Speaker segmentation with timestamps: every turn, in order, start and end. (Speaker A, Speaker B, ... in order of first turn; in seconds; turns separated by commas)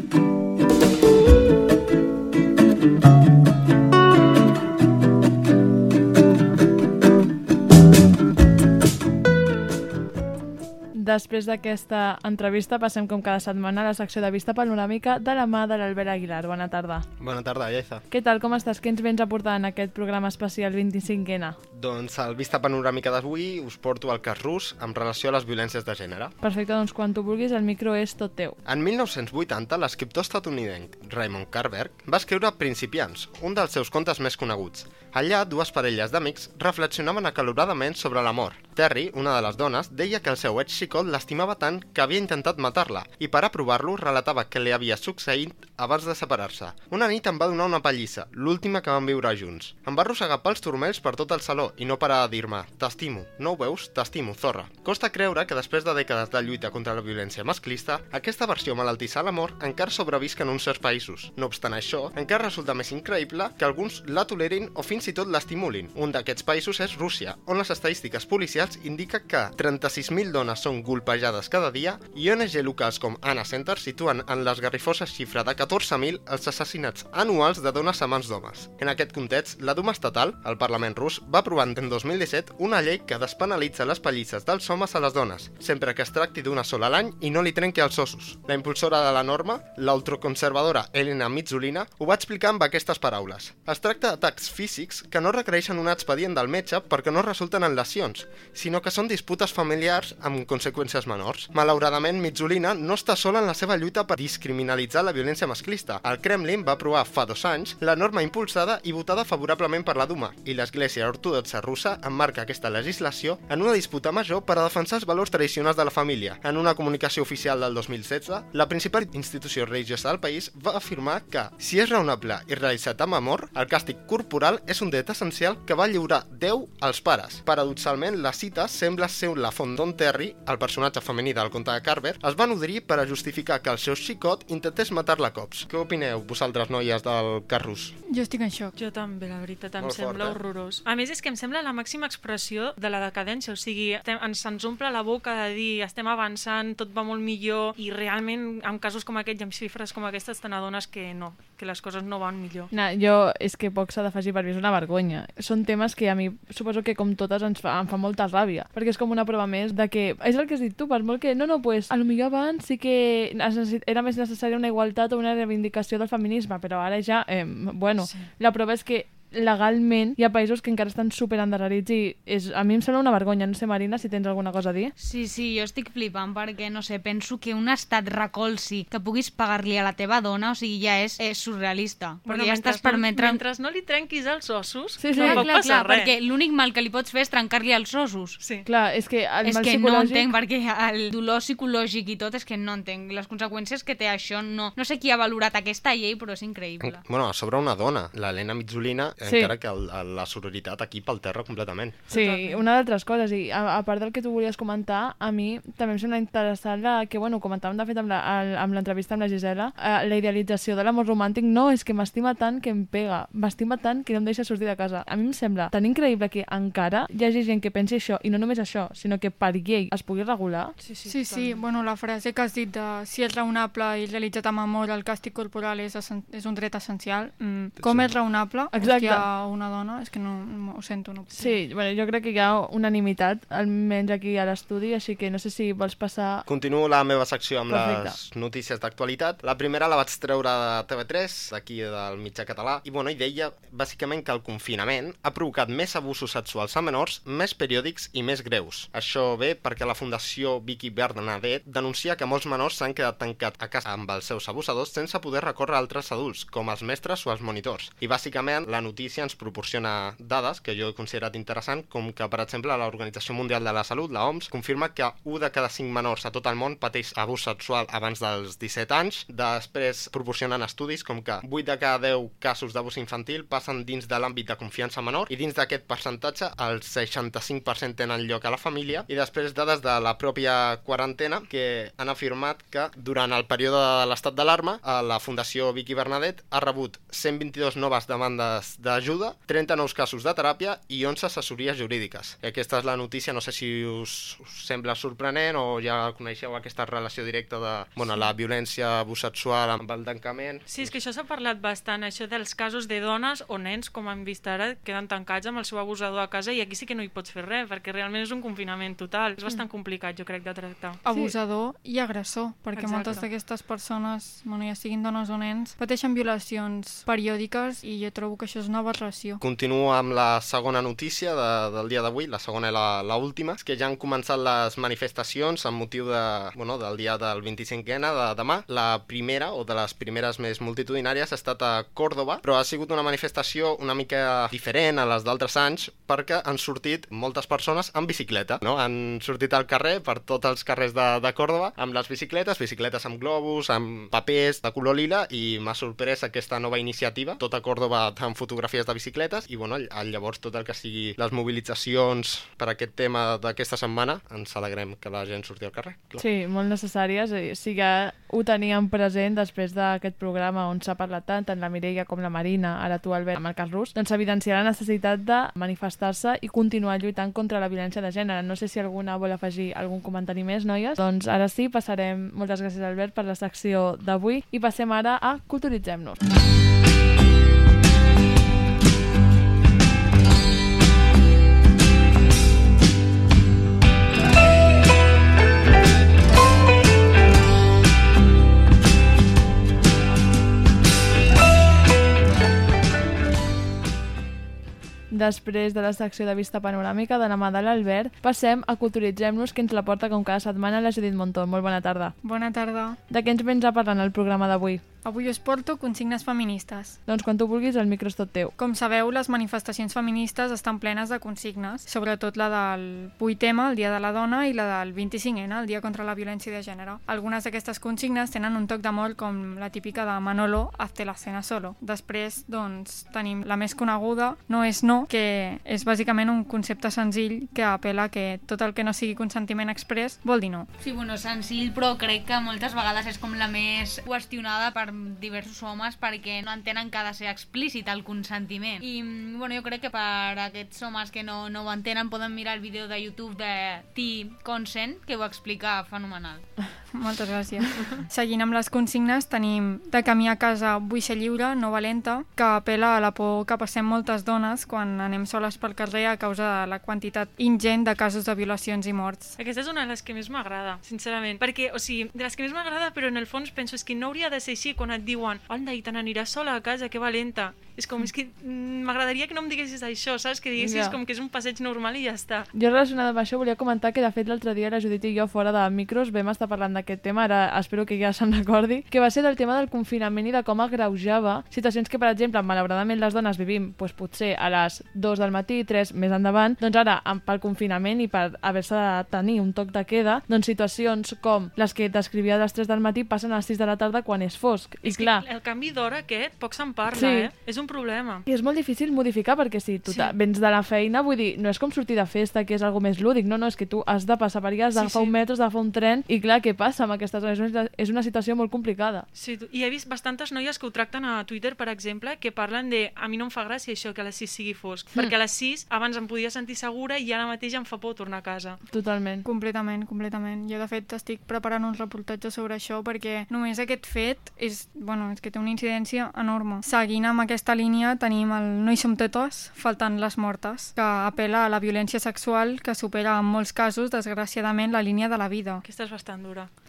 Speaker A: 10.9-17.1, Speaker B: 17.2-18.0, Speaker A: 18.1-21.6, Speaker B: 21.7-26.3, Speaker A: 26.4-28.6, Speaker B: 28.7-137.9, Speaker C: 138.1-138.7, Speaker D: 138.8-152.7, Speaker B: 139.8-140.4, Speaker A: 152.7-174.9, Speaker D: 168.0-168.3, Speaker E: 175.0-183.4, Speaker D: 182.3-186.1, Speaker A: 185.0-185.5, Speaker E: 185.2-188.4, Speaker D: 188.4-188.7, Speaker A: 188.7-190.3, Speaker E: 189.4-197.0, Speaker B: 196.8-202.0, Speaker A: 199.2-199.5, Speaker D: 202.1-202.6, Speaker A: 202.1-220.8, Speaker D: 220.8-221.7, Speaker C: 221.1-231.5, Speaker B: 227.8-228.2, Speaker A: 228.7-229.2, Speaker A: 231.3-236.5, Speaker B: 236.5-301.0, Speaker A: 237.7-238.2, Speaker D: 298.0-298.3, Speaker D: 300.7-311.0, Speaker C: 311.0-319.4, Speaker A: 311.1-311.3, Speaker D: 312.7-313.3, Speaker B: 319.4-356.2, Speaker A: 356.2-376.2, Speaker A: 395.1-402.2, Speaker C: 402.2-403.0, Speaker A: 403.1-404.8, Speaker C: 405.0-407.0, Speaker A: 407.1-408.5, Speaker C: 408.6-430.7, Speaker E: 430.8-446.5, Speaker C: 446.9-459.4, Speaker D: 447.7-448.0, Speaker D: 459.4-472.5, Speaker A: 470.6-471.0, Speaker A: 472.5-495.2, Speaker D: 494.8-498.2, Speaker A: 496.9-497.3, Speaker A: 498.3-509.1, Speaker D: 499.9-500.2, Speaker D: 504.7-505.1, Speaker D: 509.1-518.6, Speaker A: 518.7-519.3, Speaker C: 519.3-535.6, Speaker D: 535.6-536.5